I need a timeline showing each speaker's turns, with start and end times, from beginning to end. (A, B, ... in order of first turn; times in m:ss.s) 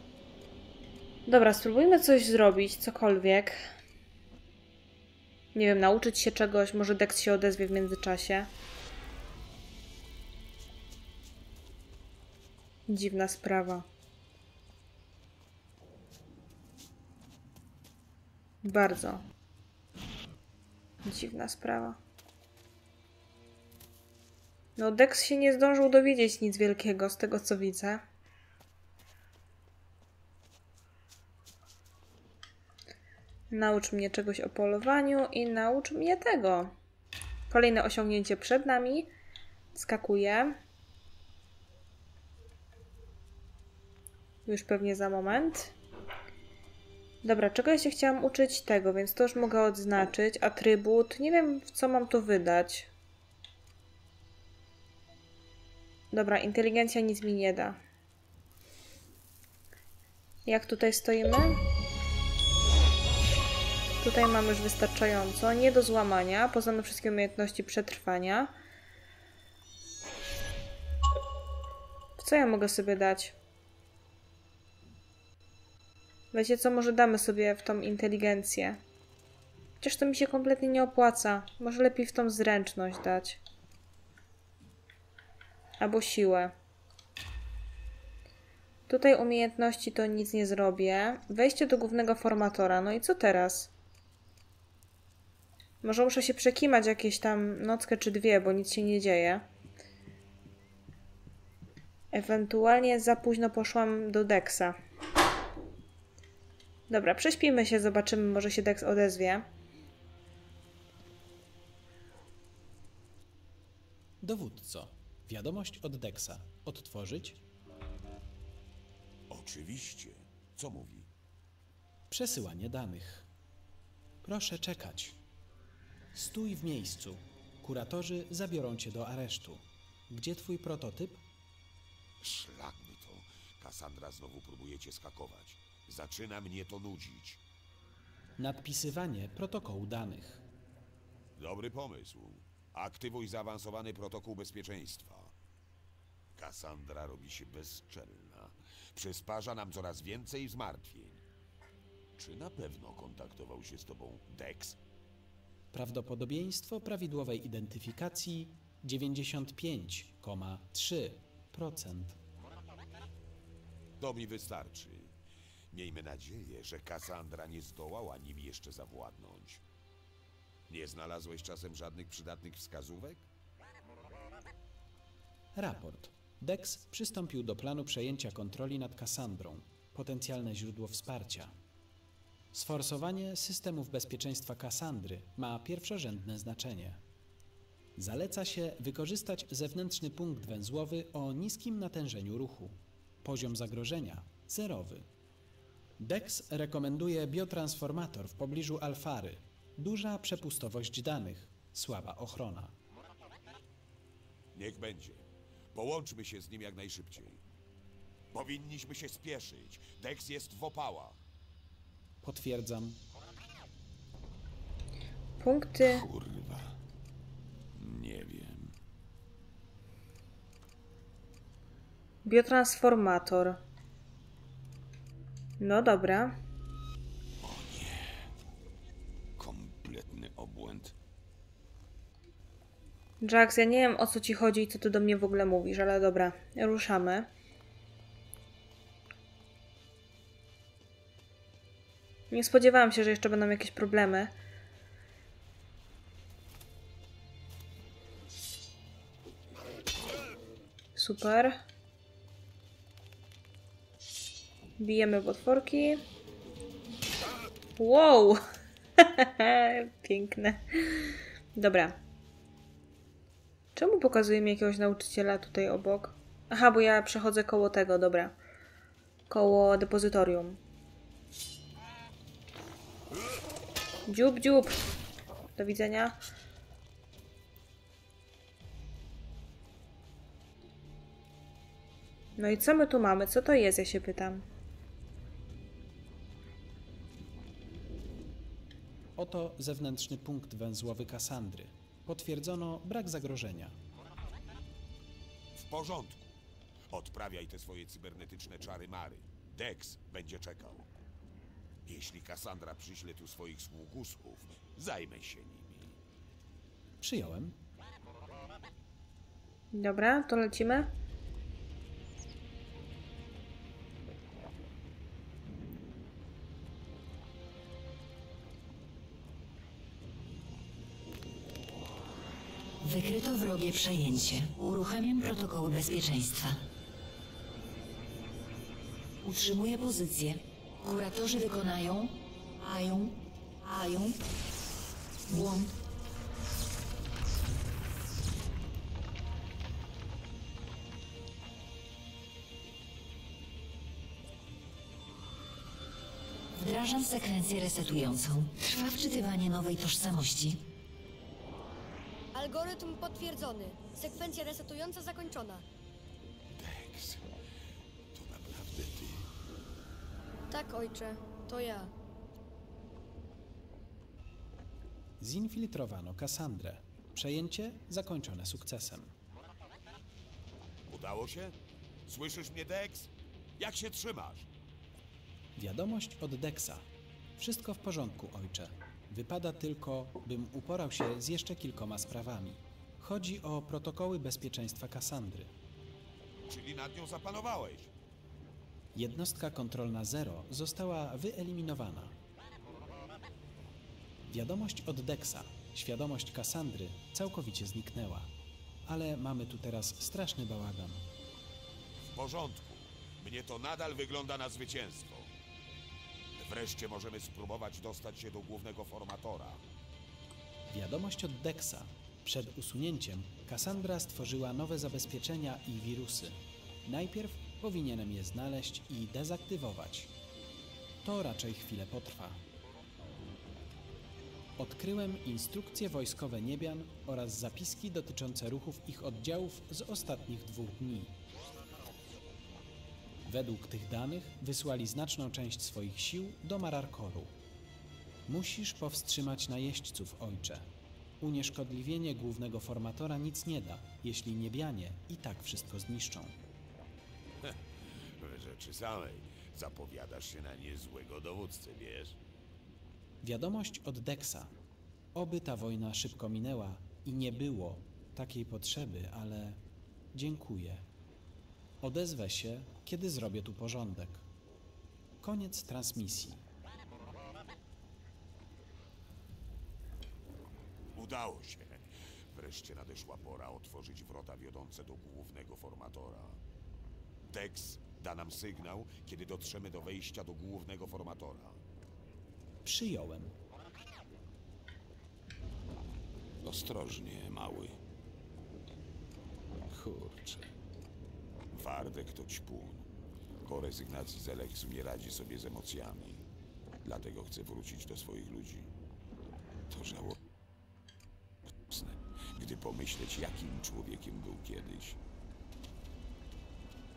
0:01.3-0:03.6 A
0:05.6-0:08.5 A
0:12.9-0:13.8 A
0:18.6-0:19.2 A
0:21.0-0:22.0 A
0:24.8-0:28.0 A
0:33.5-0:36.7 A
0:37.5-0:39.1 A
0:39.7-0:40.6 A
0:44.5-0:45.7 A
0:47.2-0:52.9 A
0:56.1-0:57.8 A
1:00.5-1:01.6 A
1:04.0-1:08.5 A
1:12.2-1:13.4 A
1:16.3-1:18.8 A
1:19.8-1:23.4 A
1:25.8-1:26.5 A
1:28.9-1:33.7 A
1:35.8-1:39.5 A
1:42.1-1:44.8 A
1:46.9-1:49.5 A
1:54.2-1:57.4 B
1:59.3-2:01.1 C
2:02.1-2:03.3 B
2:04.2-2:05.2 B
2:06.1-2:11.2 B
2:12.2-2:17.4 C
2:18.4-2:20.4 B
2:21.4-2:25.3 C
2:26.4-2:31.2 C
2:32.2-2:34.8 C
2:35.7-2:42.2 B
2:44.0-2:45.1 C
2:45.7-2:49.6 C
2:50.7-2:53.3 C
2:55.6-3:01.5 B
3:02.5-3:07.0 B
3:08.0-3:15.1 B
3:16.0-3:22.7 B
3:24.5-3:27.4 C
3:28.3-3:31.2 C
3:32.2-3:33.0 B
3:35.4-3:36.1 A
3:35.8-3:36.8 C
3:37.8-3:38.7 C
3:42.2-3:43.6 A
3:45.6-3:46.4 A
3:47.4-3:48.3 C
3:49.4-3:50.9 C
3:53.2-3:57.3 A
4:02.3-4:04.3 A
4:11.0-4:11.6 A
4:14.8-4:16.0 A
4:17.8-4:18.4 A
4:19.0-4:22.0 A
4:23.8-4:28.4 A
4:29.3-4:30.6 A
4:34.1-4:34.8 A
4:35.6-4:36.2 A
4:42.4-4:44.4 A
4:49.2-4:53.8 B
4:55.6-4:56.4 C
4:56.9-5:00.9 C
5:01.9-5:06.0 C
5:07.0-5:07.6 B
5:09.7-5:10.9 A
5:22.8-5:26.6 D
5:29.2-5:34.2 D
5:35.3-5:35.8 D
5:46.5-5:50.6 D
5:52.3-5:55.6 E
5:56.5-5:57.3 C
5:58.1-5:59.3 C
6:00.5-6:01.9 E
6:05.2-6:09.1 B
6:10.9-6:11.5 C
6:12.1-6:14.5 C
6:15.6-6:16.9 B
6:17.4-6:25.5 B
6:26.5-6:27.9 C
6:28.9-6:32.2 B
6:34.3-6:38.3 B
6:38.9-6:41.0 B
6:42.0-6:45.3 C
6:46.4-6:49.6 C
6:50.7-7:00.1 B
7:01.0-7:02.4 B
7:04.6-7:11.2 B
7:13.3-7:17.4 B
7:18.3-7:20.7 B
7:21.2-7:26.4 B
7:28.2-7:32.2 C
7:33.2-7:34.5 B
7:35.1-7:39.6 B
7:40.1-7:40.9 B
7:41.8-7:44.2 B
7:45.2-7:46.4 B
7:51.0-7:56.4 C
7:57.2-8:01.6 C
8:02.6-8:03.3 B
8:06.4-8:07.8 C
8:09.7-8:10.5 C
8:11.5-8:12.8 C
8:13.4-8:16.2 C
8:16.8-8:18.7 C
8:19.7-8:20.2 C
8:21.7-8:25.0 C